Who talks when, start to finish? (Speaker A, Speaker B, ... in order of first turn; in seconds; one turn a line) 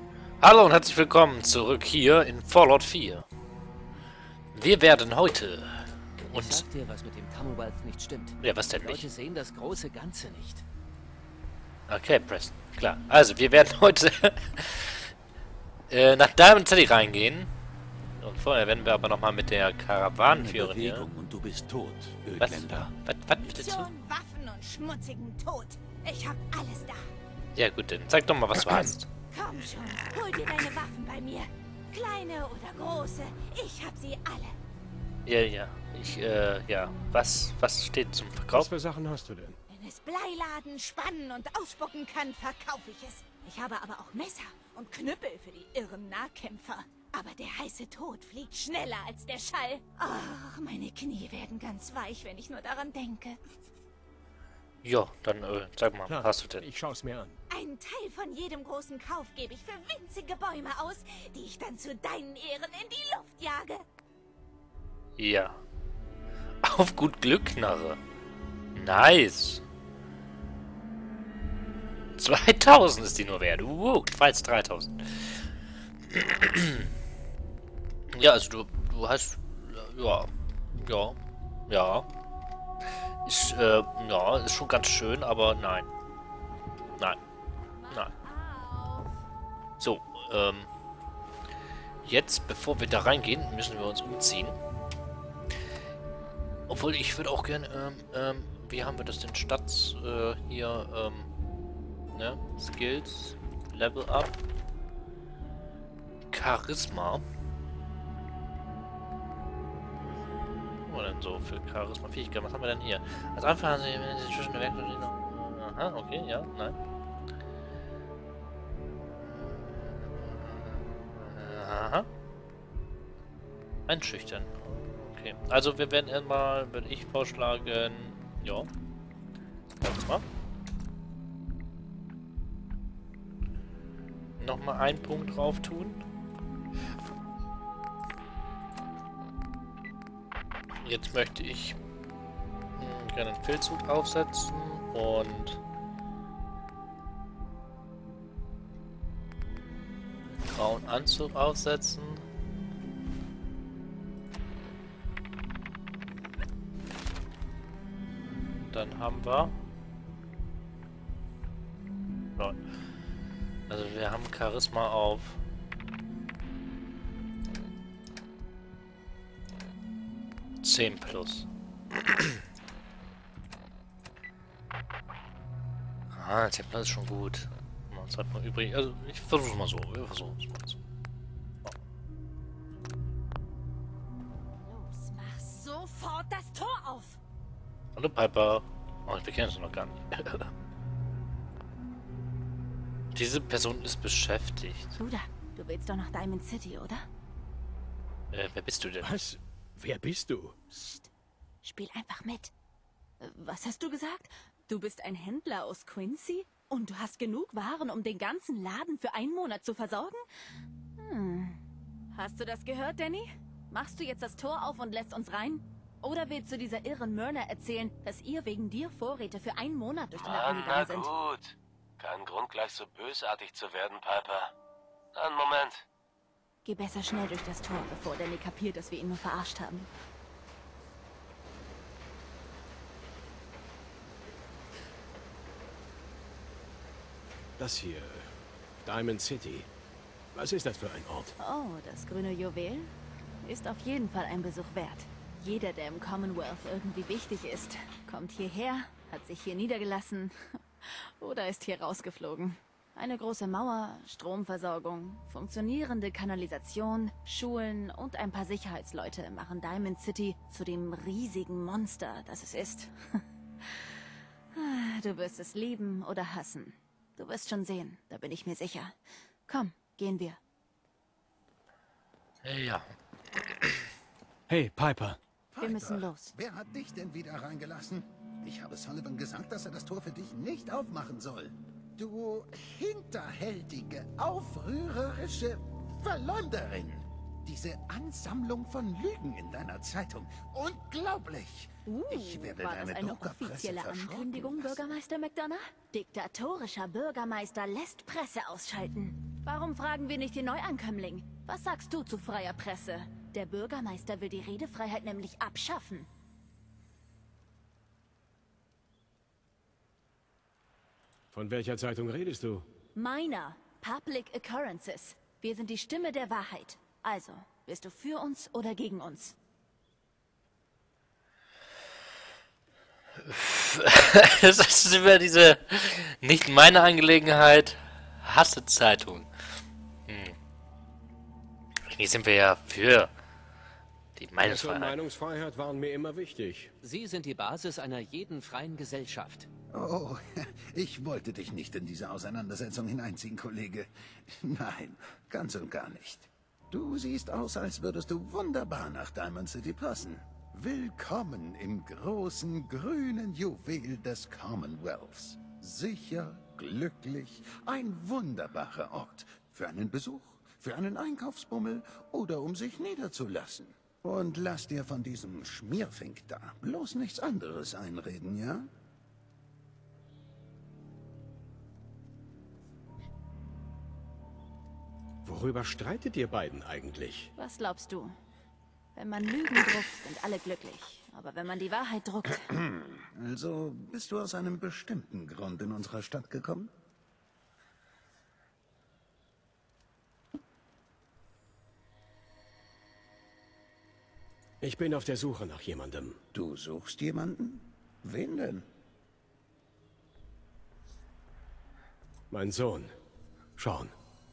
Speaker A: 0.4-3.2
Speaker A: 4.5-6.7
Speaker B: 6.2-10.7
Speaker A: 8.4-9.1
Speaker A: 11.9-15.1
Speaker A: 15.9-17.5
Speaker A: 18.2-21.1
Speaker C: 20.5-22.9
Speaker D: 20.6-21.1
Speaker A: 22.4-23.9
Speaker E: 23.4-27.1
Speaker A: 27.6-29.1
Speaker E: 29.3-34.6
Speaker A: 35.3-38.7
Speaker C: 38.5-39.6
Speaker E: 39.7-53.4
Speaker A: 54.8-56.6
Speaker C: 56.1-57.4
Speaker E: 57.5-63.8
Speaker A: 65.2-65.6
Speaker A: 66.6-68.0
Speaker A: 68.8-69.6
Speaker A: 72.2-75.4
Speaker A: 76.1-76.9
Speaker A: 78.1-81.2
Speaker A: 81.7-82.1
Speaker A: 83.2-85.9
Speaker A: 87.9-88.1
Speaker E: 88.5-88.8
Speaker A: 89.8-90.7
Speaker A: 92.0-94.6
Speaker A: 96.7-101.3
Speaker A: 102.1-104.4
Speaker A: 106.3-107.2
Speaker A: 110.8-116.8
Speaker A: 119.3-122.1
Speaker A: 123.9-128.7
Speaker A: 129.8-130.2
Speaker A: 134.4-136.0
Speaker A: 140.8-141.8
Speaker A: 142.8-145.6
Speaker A: 150.3-152.2
Speaker A: 158.7-159.6
Speaker A: 163.7-165.4
Speaker A: 170.6-172.4
Speaker A: 176.1-180.8
Speaker E: 184.6-187.2
Speaker A: 188.0-190.5
Speaker A: 193.1-195.0
Speaker F: 195.0-197.1
Speaker A: 198.3-199.2
Speaker C: 199.0-200.6
Speaker F: 200.7-201.1
Speaker F: 201.6-202.5
Speaker F: 203.2-210.2
Speaker F: 211.0-211.6
Speaker F: 212.1-221.1
Speaker G: 220.2-224.5
Speaker G: 225.2-225.8
Speaker F: 226.7-229.9
Speaker C: 237.6-239.7
Speaker C: 240.3-241.4
Speaker F: 241.4-242.9
Speaker F: 243.4-263.9
Speaker F: 264.5-269.0
Speaker F: 269.5-270.4
Speaker A: 272.4-273.9
Speaker C: 274.5-275.2
Speaker D: 275.5-295.0
Speaker F: 275.6-276.3
Speaker F: 291.9-306.1
Speaker C: 311.3-312.7
Speaker F: 313.0-319.4
Speaker A: 323.2-329.3
Speaker A: 330.1-330.4
Speaker A: 331.9-333.1
Speaker A: 334.2-335.0
Speaker C: 334.4-336.7
Speaker B: 336.8-339.5
Speaker D: 339.7-368.7
Speaker C: 375.2-377.3
Speaker F: 377.4-378.1
Speaker F: 378.9-382.5
Speaker D: 382.5-386.7
Speaker C: 394.6-396.2
Speaker D: 396.3-398.7
Speaker C: 402.3-402.9
Speaker C: 403.6-403.9